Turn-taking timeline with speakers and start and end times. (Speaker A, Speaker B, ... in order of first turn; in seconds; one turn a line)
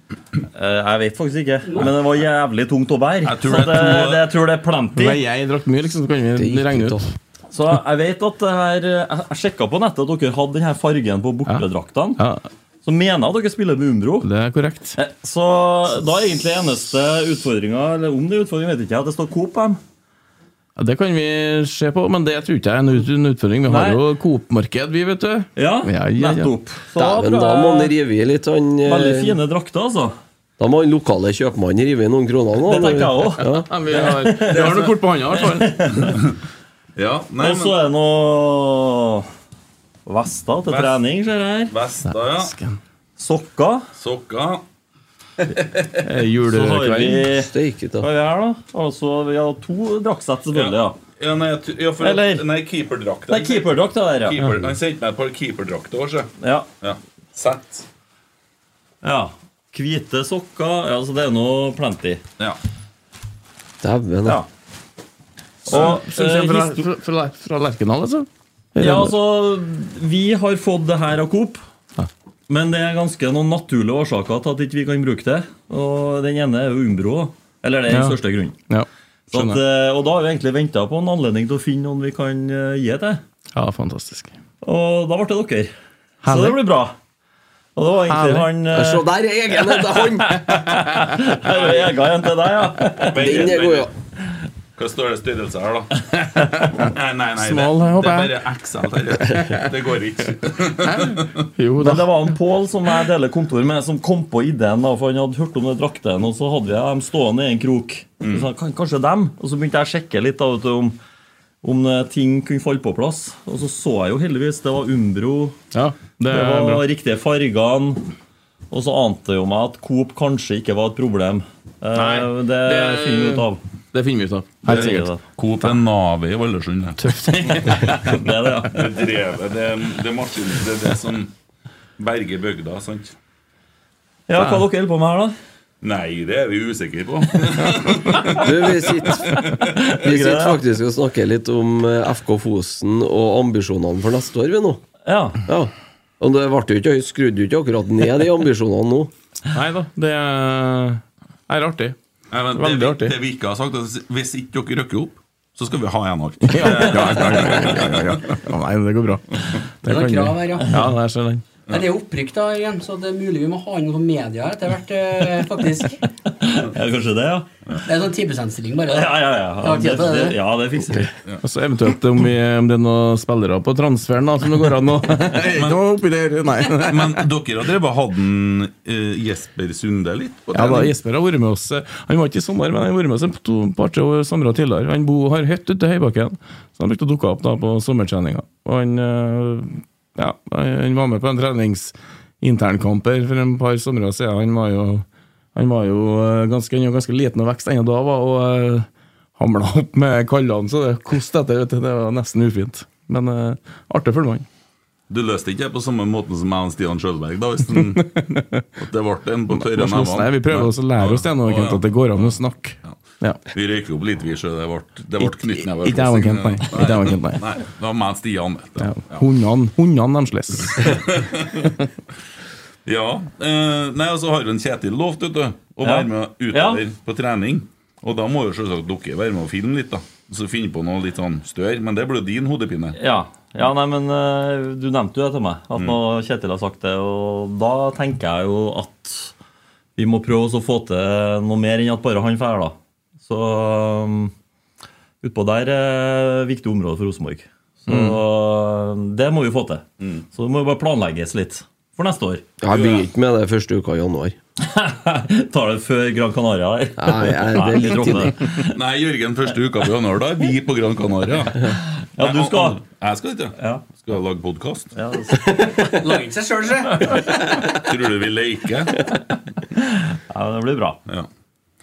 Speaker A: 0.5-5.2
Speaker B: 3.2-4.3
Speaker C: 5.0-7.1
Speaker D: 6.4-7.1
Speaker A: 7.5-12.2
Speaker C: 11.4-12.4
Speaker A: 12.8-14.3
Speaker C: 14.2-15.0
Speaker A: 14.9-19.8
Speaker C: 20.8-27.2
Speaker A: 23.7-24.0
Speaker A: 25.6-27.9
Speaker D: 27.0-29.4
Speaker A: 28.8-30.1
Speaker D: 30.6-33.7
Speaker A: 32.6-36.2
Speaker C: 33.4-36.1
Speaker B: 34.5-34.9
Speaker B: 36.1-36.4
Speaker B: 37.0-37.8
Speaker A: 37.4-39.3
Speaker A: 40.1-41.7
Speaker B: 40.7-41.0
Speaker B: 41.7-42.5
Speaker C: 42.2-42.8
Speaker A: 43.2-43.9
Speaker B: 44.0-44.6
Speaker B: 45.4-46.1
Speaker C: 46.0-47.3
Speaker A: 46.5-51.0
Speaker D: 47.3-48.1
Speaker B: 50.5-57.9
Speaker A: 52.0-52.4
Speaker A: 53.3-54.4
Speaker A: 56.4-56.7
Speaker A: 59.0-62.2
Speaker D: 63.8-64.4
Speaker A: 65.7-66.9
Speaker B: 65.7-66.0
Speaker C: 65.7-69.2
Speaker A: 68.8-71.6
Speaker A: 72.5-78.6
Speaker C: 77.9-79.6
Speaker A: 79.3-83.2
Speaker C: 83.5-84.3
Speaker A: 84.6-85.7
Speaker C: 86.2-86.6
Speaker A: 86.2-86.9
Speaker A: 87.8-93.5
Speaker C: 88.1-88.5
Speaker D: 88.7-90.5
Speaker C: 90.3-91.2
Speaker B: 93.0-93.9
Speaker D: 93.1-93.9
Speaker B: 94.8-101.5
Speaker C: 96.4-98.3
Speaker C: 100.8-102.4
Speaker A: 101.8-111.0
Speaker B: 108.2-108.5
Speaker A: 111.6-115.6
Speaker C: 115.7-116.8
Speaker A: 116.3-118.1
Speaker A: 118.7-123.6
Speaker C: 121.9-125.8
Speaker B: 124.7-131.3
Speaker A: 124.7-125.2
Speaker C: 127.0-128.3
Speaker A: 128.1-128.8
Speaker B: 132.0-133.1
Speaker A: 134.3-135.3
Speaker C: 134.4-134.7
Speaker B: 135.8-139.7
Speaker D: 138.3-144.8
Speaker A: 139.7-140.6
Speaker A: 145.1-145.4
Speaker D: 145.5-149.1
Speaker C: 149.5-152.0
Speaker B: 152.3-158.2
Speaker C: 152.6-153.2
Speaker C: 156.4-161.4
Speaker E: 159.9-160.7
Speaker A: 160.6-160.9
Speaker E: 161.7-166.0
Speaker A: 166.3-167.5
Speaker E: 167.9-170.4
Speaker A: 168.9-171.1
Speaker C: 171.4-177.2
Speaker B: 175.4-175.8
Speaker B: 176.7-180.9
Speaker C: 180.5-204.5
Speaker B: 205.1-208.3
Speaker C: 207.7-208.7
Speaker B: 208.8-219.2
Speaker C: 209.5-213.4
Speaker C: 215.2-217.4
Speaker C: 218.8-221.1
Speaker B: 220.8-221.7
Speaker B: 222.9-233.0
Speaker A: 225.8-226.8
Speaker A: 232.9-239.3
Speaker A: 240.0-244.3
Speaker A: 245.2-252.4
Speaker C: 247.9-248.2
Speaker B: 250.0-250.2
Speaker D: 252.6-254.4
Speaker B: 252.7-253.1
Speaker A: 254.6-258.8
Speaker D: 257.0-258.5
Speaker B: 258.7-264.9
Speaker A: 262.2-262.8
Speaker A: 263.6-263.9
Speaker A: 264.9-266.0
Speaker E: 265.8-267.2
Speaker A: 266.9-267.4
Speaker B: 267.5-269.1
Speaker A: 269.8-271.0